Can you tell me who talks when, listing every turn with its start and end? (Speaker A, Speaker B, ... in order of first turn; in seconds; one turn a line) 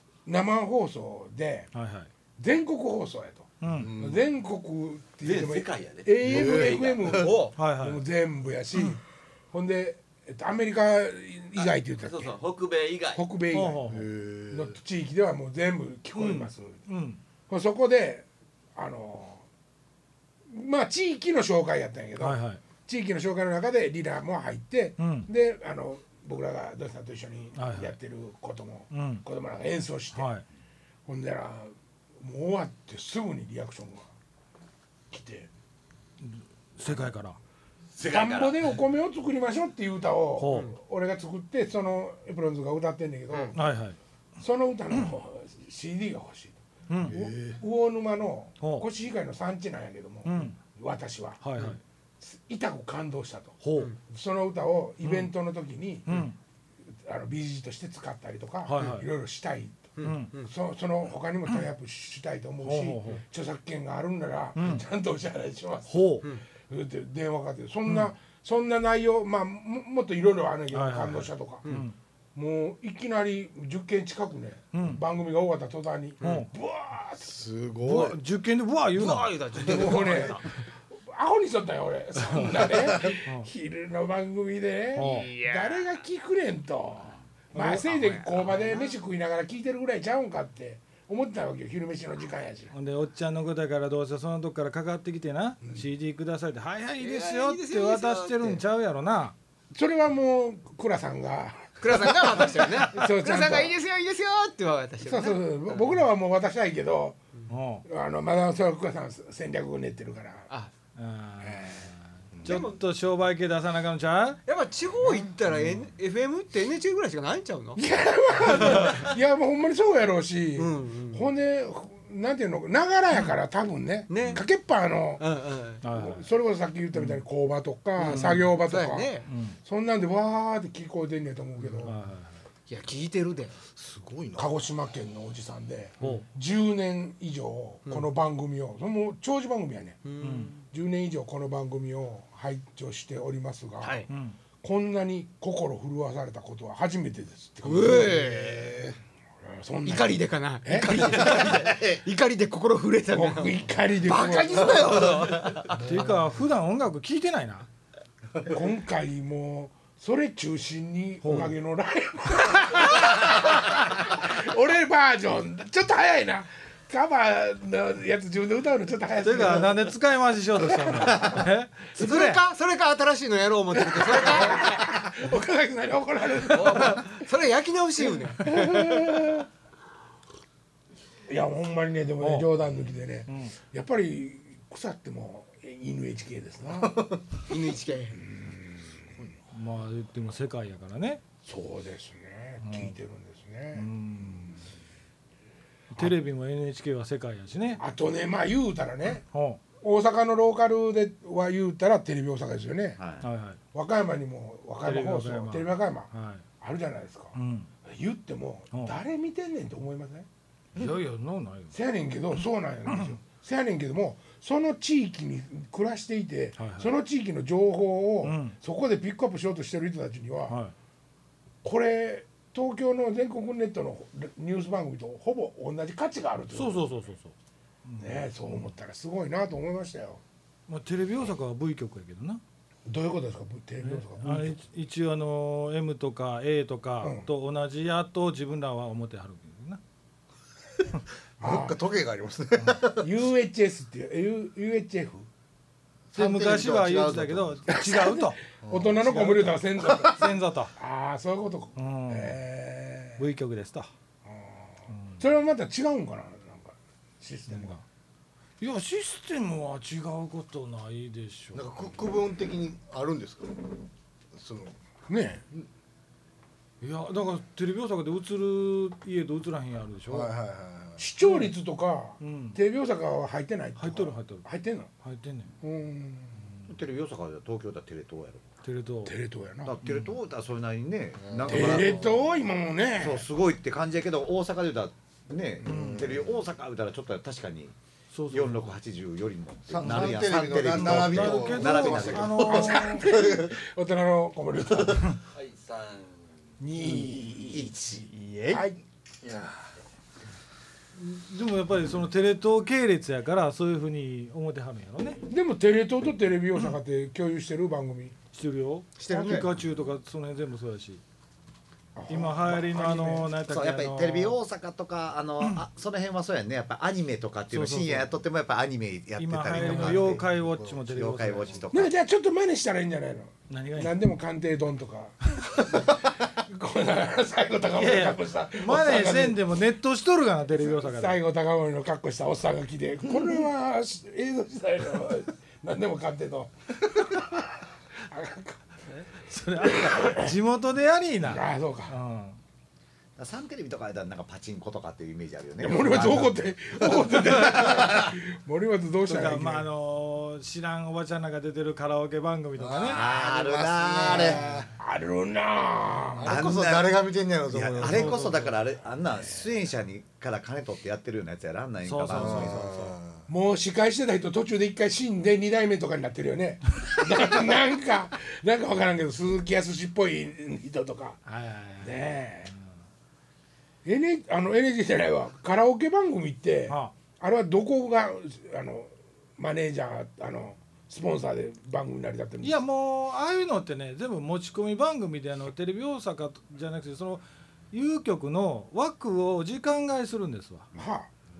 Speaker A: 0.2-1.7
Speaker B: 1.7-2.1
Speaker A: 2.4-12.3
Speaker B: 3.6-4.0
Speaker C: 3.7-4.2
Speaker D: 5.2-7.0
Speaker C: 6.2-7.1
Speaker E: 7.1-7.6
Speaker B: 7.5-8.0
Speaker D: 11.6-13.2
Speaker A: 13.1-13.8
Speaker B: 13.5-14.1
Speaker C: 13.8-14.8
Speaker A: 14.5-16.8
Speaker B: 16.1-17.2
Speaker A: 17.5-19.4
Speaker A: 20.5-30.3
Speaker B: 22.2-22.6
Speaker B: 25.0-25.3
Speaker B: 27.6-27.9
Speaker B: 28.9-29.2
Speaker B: 30.1-30.4
Speaker A: 31.1-34.1
Speaker A: 35.1-35.5
Speaker B: 36.2-37.4
Speaker D: 38.0-38.7
Speaker A: 38.0-43.6
Speaker B: 40.4-40.7
Speaker B: 43.5-44.0
Speaker A: 44.4-51.4
Speaker B: 46.9-47.2
Speaker C: 47.0-47.6
Speaker B: 48.6-48.9
Speaker B: 50.2-50.6
Speaker B: 51.4-51.8
Speaker A: 52.2-56.2
Speaker B: 53.6-53.9
Speaker B: 55.0-55.3
Speaker B: 56.0-56.4
Speaker A: 57.0-71.8
Speaker B: 58.6-59.1
Speaker E: 60.0-60.5
Speaker B: 60.0-60.4
Speaker B: 62.6-63.2
Speaker B: 64.5-64.8
Speaker B: 65.9-66.2
Speaker B: 67.8-68.1
Speaker B: 70.7-72.0
Speaker A: 72.3-77.4
Speaker B: 74.7-75.0
Speaker B: 76.2-76.5
Speaker C: 77.3-78.2
Speaker B: 77.8-79.9
Speaker E: 78.9-80.4
Speaker A: 79.7-80.4
Speaker A: 81.0-92.7
Speaker B: 82.2-83.5
Speaker B: 84.9-85.4
Speaker E: 85.0-85.8
Speaker B: 87.5-88.2
Speaker E: 87.8-89.0
Speaker B: 92.7-99.3
Speaker E: 97.0-98.6
Speaker A: 99.7-102.3
Speaker E: 101.8-106.0
Speaker A: 102.9-103.8
Speaker A: 105.0-107.2
Speaker B: 107.5-107.8
Speaker A: 107.8-110.5
Speaker B: 111.0-114.4
Speaker E: 112.4-112.8
Speaker E: 114.5-117.8
Speaker B: 115.5-115.8
Speaker A: 117.8-125.2
Speaker E: 118.4-118.9
Speaker E: 120.6-121.3
Speaker E: 124.1-124.5
Speaker E: 125.2-125.8
Speaker B: 125.8-126.3
Speaker A: 125.9-131.9
Speaker B: 126.9-127.2
Speaker E: 128.0-129.3
Speaker B: 128.1-128.5
Speaker B: 129.2-129.6
Speaker B: 131.8-132.4
Speaker E: 132.7-133.6
Speaker C: 133.8-134.5
Speaker A: 134.3-140.0
Speaker B: 136.0-136.3
Speaker E: 140.0-140.5
Speaker B: 140.2-140.6
Speaker A: 140.7-144.0
Speaker E: 143.8-144.1
Speaker B: 144.1-144.4
Speaker A: 144.6-148.2
Speaker E: 147.6-148.9
Speaker A: 149.4-151.4
Speaker E: 149.8-155.8
Speaker A: 153.1-155.0
Speaker B: 155.8-157.7
Speaker A: 158.4-169.9
Speaker B: 161.2-161.5
Speaker B: 169.2-172.4
Speaker A: 170.7-171.4
Speaker E: 171.9-174.7
Speaker A: 173.8-177.2
Speaker E: 176.5-179.2
Speaker A: 178.4-179.5
Speaker A: 181.3-187.2
Speaker B: 182.2-183.6
Speaker E: 187.4-188.2
Speaker A: 188.2-188.9
Speaker B: 189.3-191.2
Speaker A: 191.4-194.6
Speaker B: 192.6-193.0
Speaker B: 193.7-194.6
Speaker B: 195.9-197.8
Speaker A: 197.8-199.2
Speaker B: 199.1-199.6
Speaker A: 199.8-203.1
Speaker F: 203.0-203.2
Speaker B: 203.2-203.6
Speaker A: 203.7-206.1
Speaker B: 204.8-206.4
Speaker A: 206.6-210.3
Speaker B: 207.3-207.7
Speaker B: 208.7-209.0
Speaker B: 210.8-211.8
Speaker A: 211.7-220.6
Speaker B: 212.3-213.2
Speaker B: 216.6-217.0
Speaker B: 218.2-218.6
Speaker B: 220.5-220.7
Speaker A: 221.6-226.9
Speaker B: 226.5-227.3
Speaker B: 227.8-228.7
Speaker A: 228.0-230.2
Speaker B: 230.7-232.4
Speaker A: 232.8-234.6
Speaker B: 233.8-239.8
Speaker A: 237.0-237.3
Speaker A: 241.4-241.8
Speaker C: 241.4-243.1
Speaker B: 242.6-242.8
Speaker A: 242.9-245.3
Speaker C: 246.1-247.8
Speaker B: 246.1-248.5
Speaker A: 247.7-250.2
Speaker C: 248.6-248.9
Speaker B: 249.0-250.7
Speaker C: 249.9-250.2
Speaker A: 250.8-253.2
Speaker B: 251.8-252.4
Speaker B: 253.2-253.9
Speaker A: 254.2-257.8
Speaker B: 254.9-255.3
Speaker B: 257.5-257.8
Speaker B: 258.6-261.9
Speaker C: 261.5-263.8
Speaker C: 264.3-264.8
Speaker A: 265.1-265.4
Speaker B: 266.8-270.3
Speaker C: 270.1-271.1
Speaker A: 271.0-274.9
Speaker B: 271.2-271.6
Speaker B: 272.2-272.6
Speaker B: 273.8-274.5
Speaker B: 275.0-275.5
Speaker A: 275.6-276.4
Speaker F: 276.7-278.4
Speaker B: 278.6-279.2
Speaker A: 279.0-279.7
Speaker F: 279.6-282.1
Speaker B: 279.8-280.2
Speaker C: 281.2-282.3
Speaker A: 281.5-283.2
Speaker F: 283.0-287.7
Speaker B: 285.6-286.0
Speaker C: 285.7-286.4
Speaker B: 288.1-288.7
Speaker F: 288.3-293.5
Speaker C: 289.7-292.5
Speaker B: 289.8-290.2
Speaker B: 290.7-293.1
Speaker A: 292.4-295.2
Speaker D: 295.3-296.1
Speaker A: 296.6-297.8
Speaker F: 297.5-298.1
Speaker A: 298.5-298.8
Speaker C: 299.2-299.6
Speaker B: 301.0-305.2
Speaker A: 305.2-308.1
Speaker B: 308.3-311.0
Speaker E: 309.0-309.5
Speaker A: 309.1-309.5
Speaker A: 311.9-313.3
Speaker B: 312.1-314.4
Speaker F: 313.4-320.3
Speaker B: 317.5-318.1
Speaker B: 319.2-321.7
Speaker C: 319.9-320.9
Speaker F: 320.9-321.9
Speaker A: 321.7-329.4
Speaker B: 323.5-324.0
Speaker B: 327.7-331.2
Speaker A: 330.5-337.4
Speaker A: 338.1-338.8
Speaker B: 338.9-342.4
Speaker A: 339.6-340.3
Speaker A: 341.2-341.9
Speaker F: 343.2-347.1
Speaker A: 345.6-349.7
Speaker B: 349.0-353.0
Speaker C: 352.6-354.7
Speaker F: 352.8-354.4
Speaker A: 354.8-356.3
Speaker C: 356.1-358.2
Speaker F: 356.2-362.6
Speaker B: 357.9-358.6
Speaker B: 361.8-363.0
Speaker C: 362.1-363.2
Speaker A: 363.3-371.2
Speaker B: 371.2-372.5
Speaker A: 371.8-372.5
Speaker A: 373.8-382.6
Speaker B: 376.7-377.0
Speaker B: 382.4-390.7
Speaker A: 390.7-391.1